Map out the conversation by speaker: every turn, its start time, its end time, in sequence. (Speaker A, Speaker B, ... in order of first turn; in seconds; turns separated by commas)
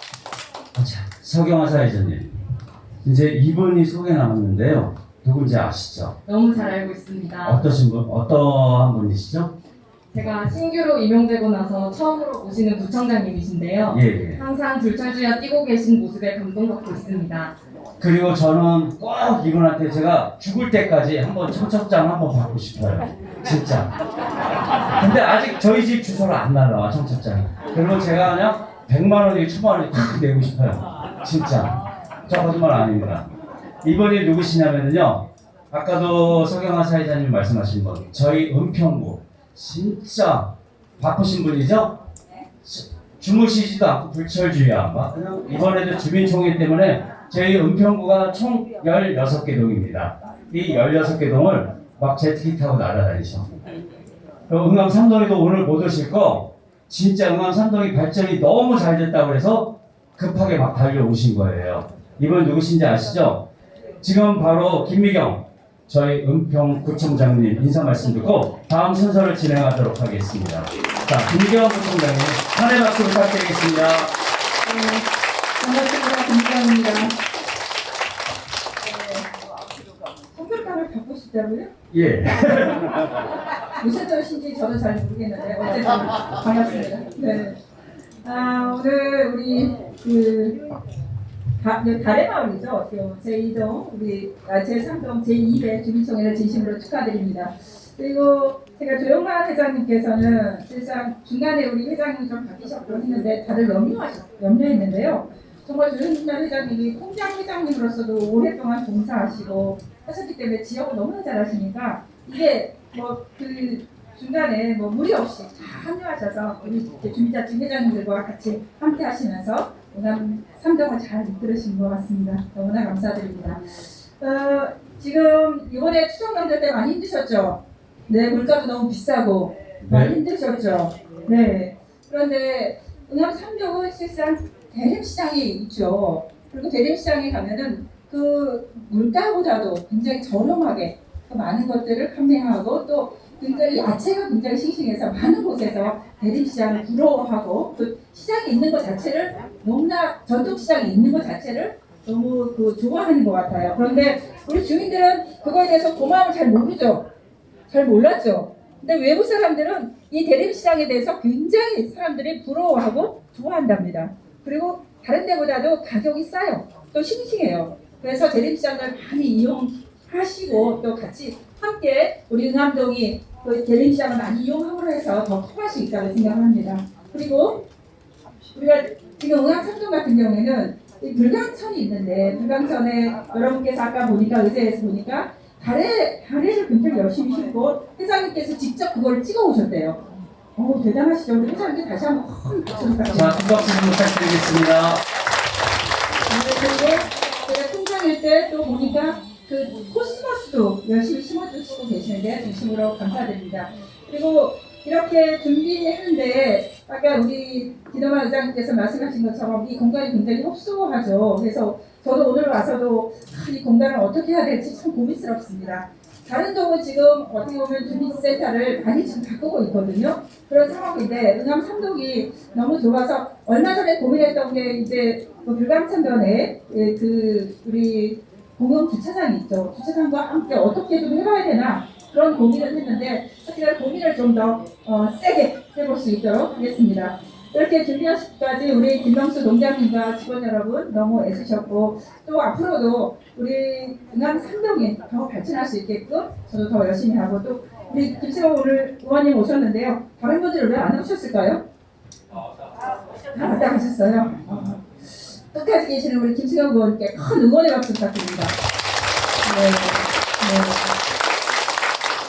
Speaker A: 0.8-2.4, Speaker A: 3.0-6.2, Speaker B: 6.3-7.6, Speaker A: 7.4-9.5, Speaker B: 10.1-17.6, Speaker A: 13.9-14.4, Speaker A: 18.0-23.9, Speaker A: 25.0-33.3, Speaker A: 33.8-42.0, Speaker A: 42.6-53.5, Speaker A: 54.5-63.5, Speaker A: 64.0-74.1, Speaker C: 74.7-75.1, Speaker C: 75.6-77.2, Speaker C: 78.8-79.3, Speaker C: 80.3-81.7, Speaker A: 81.9-82.9, Speaker C: 83.8-87.6, Speaker C: 88.2-90.7, Speaker C: 91.6-157.1, Speaker A: 129.8-130.1, Speaker C: 157.7-177.7, Speaker C: 178.5-190.0, Speaker C: 190.6-193.8, Speaker A: 193.1-195.0, Speaker C: 196.3-251.6, Speaker C: 253.3-254.9, Speaker C: 255.5-258.6, Speaker C: 259.4-261.0